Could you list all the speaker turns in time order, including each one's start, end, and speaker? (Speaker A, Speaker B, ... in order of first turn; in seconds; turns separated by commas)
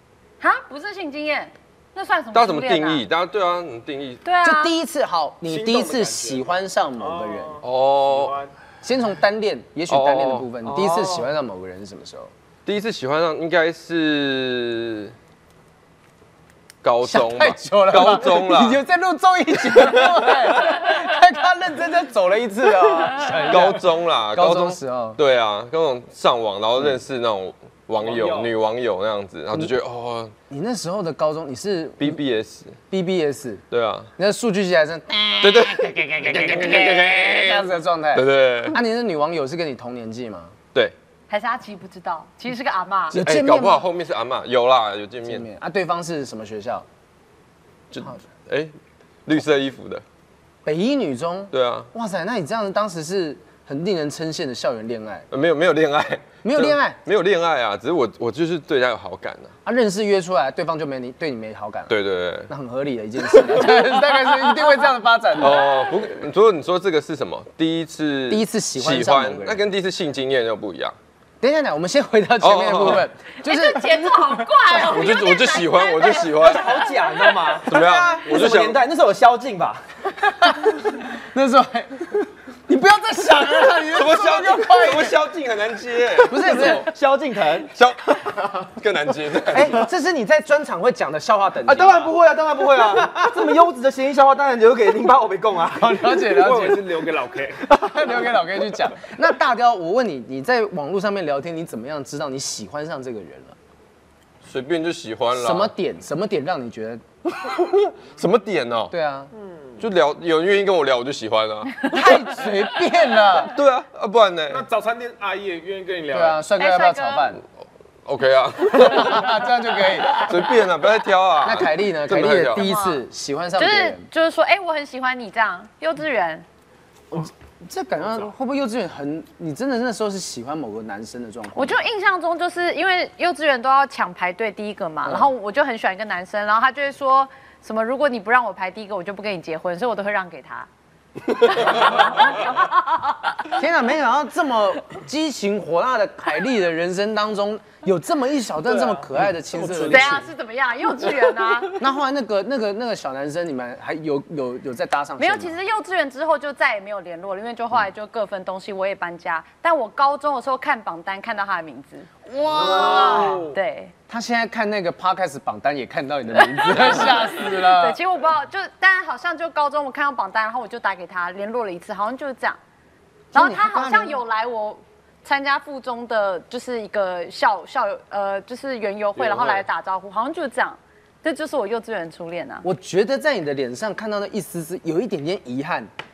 Speaker A: 0.4-3.0, Speaker B: 2.3-4.2, Speaker A: 4.2-4.7, Speaker C: 4.4-7.6, Speaker D: 5.5-8.5, Speaker B: 7.6-8.4, Speaker C: 8.8-12.3, Speaker B: 9.9-10.5, Speaker E: 10.6-11.3, Speaker B: 12.7-15.1, Speaker B: 16.8-18.8, Speaker C: 17.0-25.2, Speaker B: 19.8-20.8, Speaker D: 23.3-23.6, Speaker B: 23.5-30.4, Speaker D: 28.0-28.5, Speaker C: 30.5-32.2, Speaker B: 32.0-32.8, Speaker C: 32.9-33.6, Speaker B: 33.7-34.1, Speaker C: 34.2-40.5, Speaker B: 35.4-38.8, Speaker A: 41.3-43.2, Speaker C: 43.1-43.8, Speaker B: 43.1-45.5, Speaker C: 45.3-46.9, Speaker B: 47.9-48.7, Speaker B: 49.3-50.0, Speaker C: 50.6-55.3, Speaker B: 51.5-51.9, Speaker B: 55.3-59.5, Speaker C: 56.4-57.0, Speaker C: 59.6-61.9, Speaker B: 61.9-62.5, Speaker C: 62.5-65.7, Speaker B: 63.2-63.9, Speaker B: 65.4-71.0, Speaker C: 68.3-69.6, Speaker C: 71.4-74.2, Speaker B: 72.4-73.1, Speaker A: 73.4-77.5, Speaker B: 74.7-76.9, Speaker E: 76.2-79.8, Speaker B: 77.6-78.8, Speaker C: 80.2-85.2, Speaker B: 83.9-86.9, Speaker C: 86.2-86.9, Speaker E: 86.4-87.8, Speaker B: 87.7-89.9, Speaker C: 89.5-92.1, Speaker E: 91.7-96.1, Speaker C: 95.8-96.9, Speaker D: 96.2-97.7, Speaker C: 97.7-103.6, Speaker E: 97.9-98.3, Speaker B: 104.4-105.7, Speaker C: 105.3-107.0, Speaker B: 107.4-108.9, Speaker C: 108.9-109.3, Speaker B: 109.8-111.8, Speaker C: 111.8-113.5, Speaker B: 113.4-114.6, Speaker D: 114.5-116.5, Speaker C: 116.1-117.4, Speaker A: 116.6-117.3, Speaker B: 118.1-119.4, Speaker C: 118.7-120.3, Speaker B: 120.1-122.7, Speaker C: 121.4-124.1, Speaker A: 122.6-123.0, Speaker A: 123.6-126.5, Speaker C: 127.1-131.8, Speaker A: 131.6-140.7, Speaker A: 141.3-143.5, Speaker C: 143.5-150.3, Speaker D: 148.6-150.3, Speaker A: 149.9-151.8, Speaker C: 151.8-155.6, Speaker A: 155.2-163.9, Speaker C: 162.3-163.4, Speaker D: 162.6-163.6, Speaker E: 162.8-163.4, Speaker C: 164.1-168.0, Speaker A: 166.3-172.6, Speaker C: 173.3-174.2, Speaker A: 173.3-182.7, Speaker D: 179.2-179.5, Speaker C: 182.6-185.9